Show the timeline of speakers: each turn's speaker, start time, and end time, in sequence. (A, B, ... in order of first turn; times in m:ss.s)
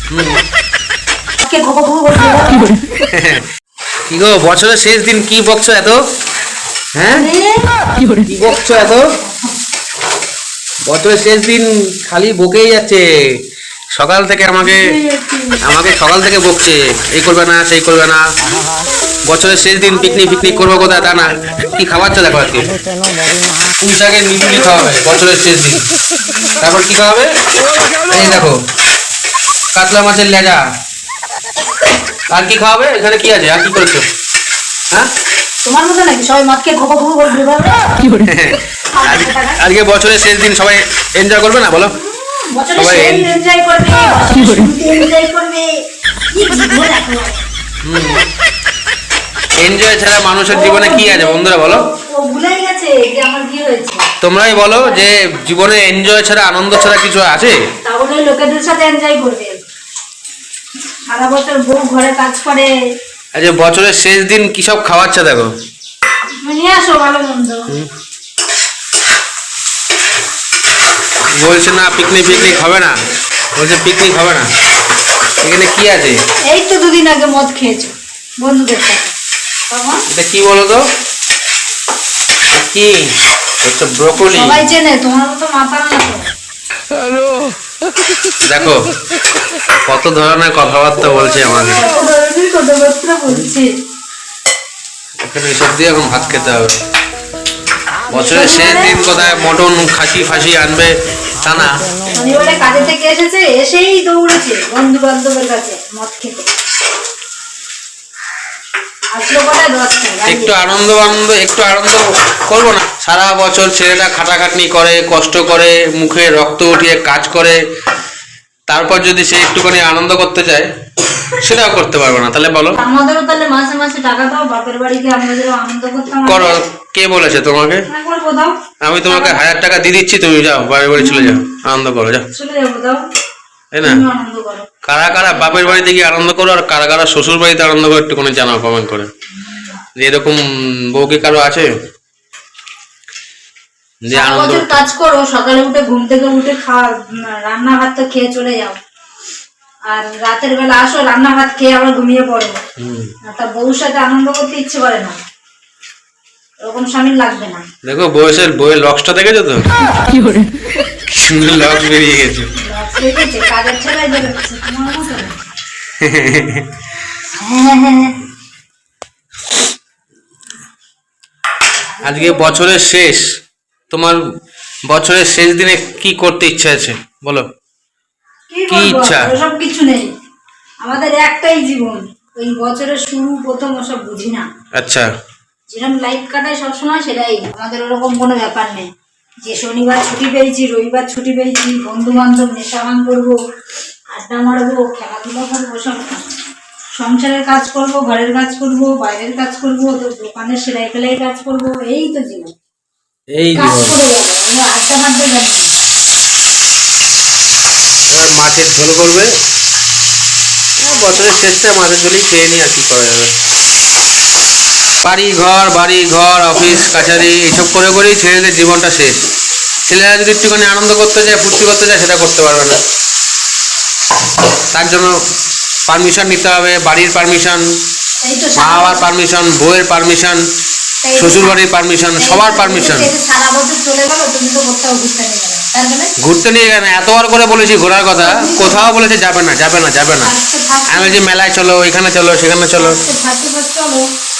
0:00.1-0:00.4 A
0:01.4-0:02.8 B
0:03.1-0:03.4 A
0:04.1-0:06.0 A
0:07.0-0:07.3 A
0:07.1-0:07.7 B
0:08.2-0:09.0 A
0:08.4-0:09.5 B
0:10.9-0:13.4 A
0:14.0-0:14.9 A
0:14.6-0:15.6 B
0:15.6-0:18.2 A
0:19.3-0:22.7 A
0:23.8-0:25.8 A
0:26.6-0:27.3 A
0:28.1-0:28.6 A
0:29.7-0:30.6 A
0:32.3-0:34.0 A
0:35.6-0:38.0 B
0:38.2-0:41.9 A
0:38.9-0:39.6 B
0:41.9-0:45.8 B
0:42.8-0:43.3 A
0:46.3-0:47.4 B
0:47.8-0:48.3 A
0:49.6-0:51.8 A
0:50.5-0:54.0 B
0:54.2-0:57.6 A
0:54.7-0:55.0 B
0:57.8-0:59.6 B
1:01.1-1:02.7 B
1:03.4-1:05.5 A
1:06.4-1:07.7 B
1:11.4-1:13.0 A
1:13.6-1:14.5 A
1:15.4-1:16.2 A
1:16.5-1:19.1 B
1:19.7-1:20.0 B
1:20.1-1:20.8 A
1:22.5-1:23.1 A
1:23.6-1:24.6 A
1:24.2-1:26.3 B
1:28.4-1:28.8 A
1:29.8-1:31.8 A
1:31.7-1:33.7 B
1:35.2-1:36.7 A
1:38.1-1:41.7 A
1:38.1-1:39.1 B
1:42.1-1:46.5 B
1:49.1-1:50.5 B
1:50.2-1:57.6 A
1:58.7-2:00.7 A
2:01.4-2:02.8 A
2:02.8-2:06.6 B
2:06.2-2:07.8 A
2:07.8-2:09.4 B
2:08.8-2:12.3 A
2:11.0-2:11.4 B
2:12.3-2:13.1 B
2:13.7-2:14.0 A
2:13.8-2:15.9 B
2:14.8-2:19.1 A
2:19.4-2:19.7 B
2:20.0-2:21.7 A
2:24.0-2:24.8 A
2:24.1-2:28.8 B
2:29.9-2:32.6 B
2:32.8-2:33.1 A
2:33.2-2:35.2 B
2:36.6-2:37.6 B
2:37.8-2:39.6 A
2:41.1-2:42.5 A
2:42.6-2:45.4 B
2:46.0-2:46.7 A
2:47.4-2:48.2 B
2:51.9-2:52.8 B
2:52.0-2:53.2 A
2:53.9-2:54.2 A
2:54.9-2:57.5 A
2:58.5-3:00.1 B
2:58.7-2:59.3 A
3:00.8-3:04.5 B
3:04.8-3:05.1 A
3:05.7-3:08.9 B
3:09.4-3:13.4 B
3:14.1-3:16.3 B
3:17.0-3:22.5 B
3:23.4-3:24.0 A
3:23.6-3:25.7 B
3:28.1-3:29.3 A
3:30.8-3:33.3 A
3:35.0-3:39.2 A
3:39.9-3:42.8 A
3:44.7-3:45.2 A
3:45.9-3:47.6 A
3:48.2-3:49.1 B
3:48.6-3:50.4 A
3:51.0-3:51.6 B
3:51.2-3:53.1 A
3:52.2-3:56.1 B
3:56.2-4:00.3 A
3:58.2-3:58.9 B
4:00.2-4:01.2 B
4:00.9-4:03.0 A
4:02.8-4:04.0 B